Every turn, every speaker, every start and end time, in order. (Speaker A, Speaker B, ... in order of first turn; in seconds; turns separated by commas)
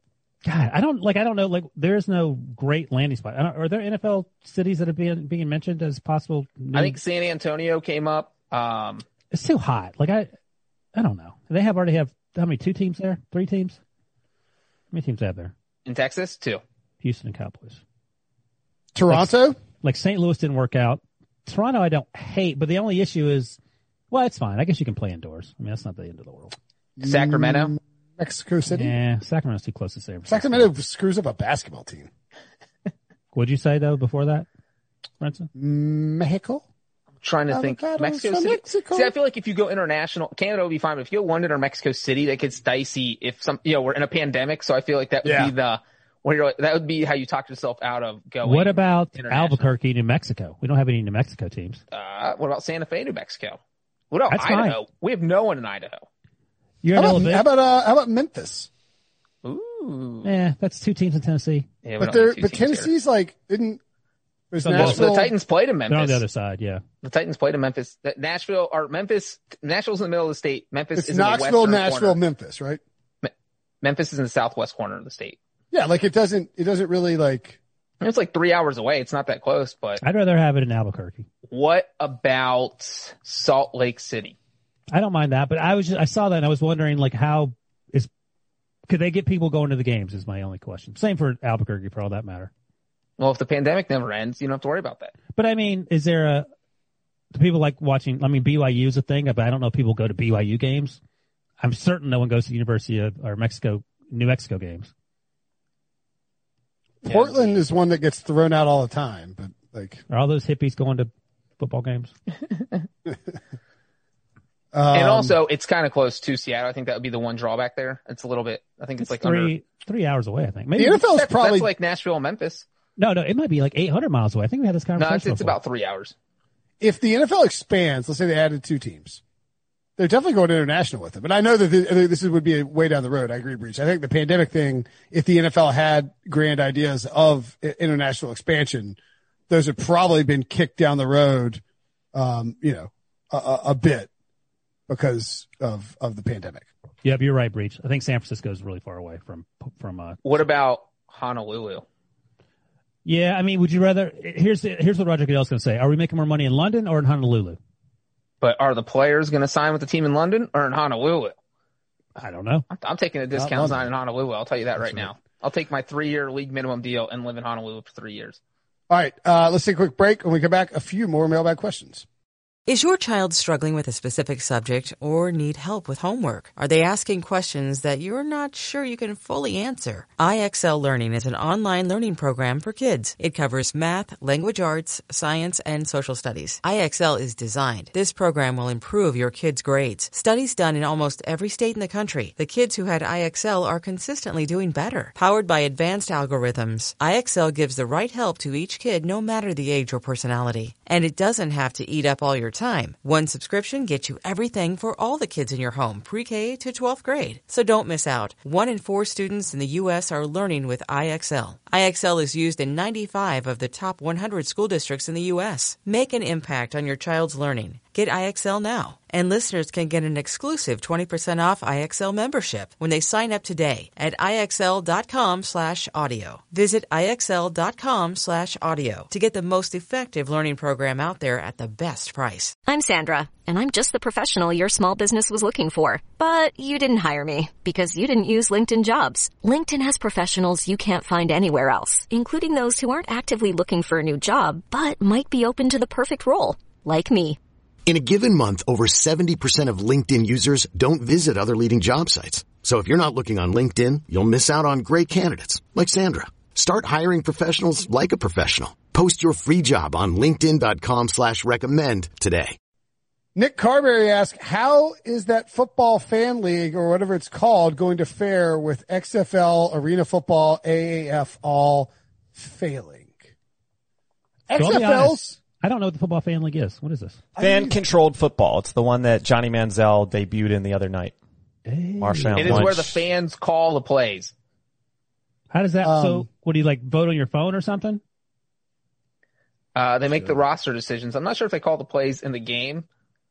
Speaker A: 0.4-7.0, Speaker B: 6.7-9.0, Speaker A: 9.3-10.3, Speaker A: 10.9-13.8, Speaker A: 14.9-15.5, Speaker B: 15.8-16.6, Speaker A: 17.0-17.8, Speaker C: 18.9-19.6, Speaker A: 19.1-23.6, Speaker A: 24.1-26.5, Speaker C: 27.0-28.9, Speaker B: 27.0-27.7, Speaker A: 28.7-30.7, Speaker C: 30.3-32.1, Speaker A: 33.3-34.5, Speaker A: 35.2-35.5, Speaker C: 35.5-36.6, Speaker B: 37.2-49.7, Speaker C: 37.5-39.1, Speaker C: 45.2-45.5, Speaker A: 48.4-51.8, Speaker B: 51.9-53.6, Speaker B: 54.1-56.0, Speaker A: 54.3-54.8, Speaker A: 56.8-57.5, Speaker C: 56.9-58.7, Speaker B: 59.4-60.3, Speaker A: 60.2-61.7, Speaker B: 61.8-62.9, Speaker C: 62.0-63.8, Speaker C: 64.5-65.3, Speaker A: 64.6-65.1, Speaker B: 64.7-66.2, Speaker A: 65.9-66.8, Speaker B: 67.0-72.2, Speaker C: 70.9-72.8, Speaker B: 73.2-75.4, Speaker C: 75.7-77.6, Speaker B: 78.0-80.0, Speaker A: 80.0-81.2, Speaker B: 81.5-84.3, Speaker A: 84.9-88.1, Speaker A: 88.9-92.5, Speaker B: 93.2-95.1, Speaker A: 95.3-96.5, Speaker A: 97.3-101.0, Speaker A: 101.6-104.9, Speaker C: 107.0-110.0, Speaker B: 107.0-107.6, Speaker A: 110.1-112.1, Speaker C: 114.7-115.3, Speaker B: 114.9-119.5, Speaker A: 119.0-121.0, Speaker C: 120.8-121.7, Speaker B: 121.1-122.7, Speaker A: 123.0-125.5, Speaker B: 125.0-126.1, Speaker C: 126.8-129.2, Speaker C: 130.0-139.0, Speaker C: 139.5-141.6, Speaker C: 142.1-144.1, Speaker C: 144.9-146.6, Speaker A: 147.0-150.3, Speaker B: 150.2-151.8, Speaker A: 153.0-157.6, Speaker B: 158.4-161.3, Speaker A: 162.2-162.7, Speaker B: 162.7-168.4, Speaker C: 163.3-163.9, Speaker C: 164.8-165.1, Speaker C: 168.9-172.0, Speaker D: 172.7-232.5, Speaker E: 232.7-247.4, Speaker F: 247.8-262.6, Speaker C: 263.3-273.2, Speaker C: 274.5-275.4, Speaker A: 274.5-277.2, Speaker C: 277.4-277.8, Speaker G: 277.4-281.1, Speaker A: 281.6-282.7, Speaker G: 282.0-283.0, Speaker B: 282.4-284.3, Speaker A: 285.5-288.0, Speaker C: 285.8-286.3, Speaker B: 289.8-292.9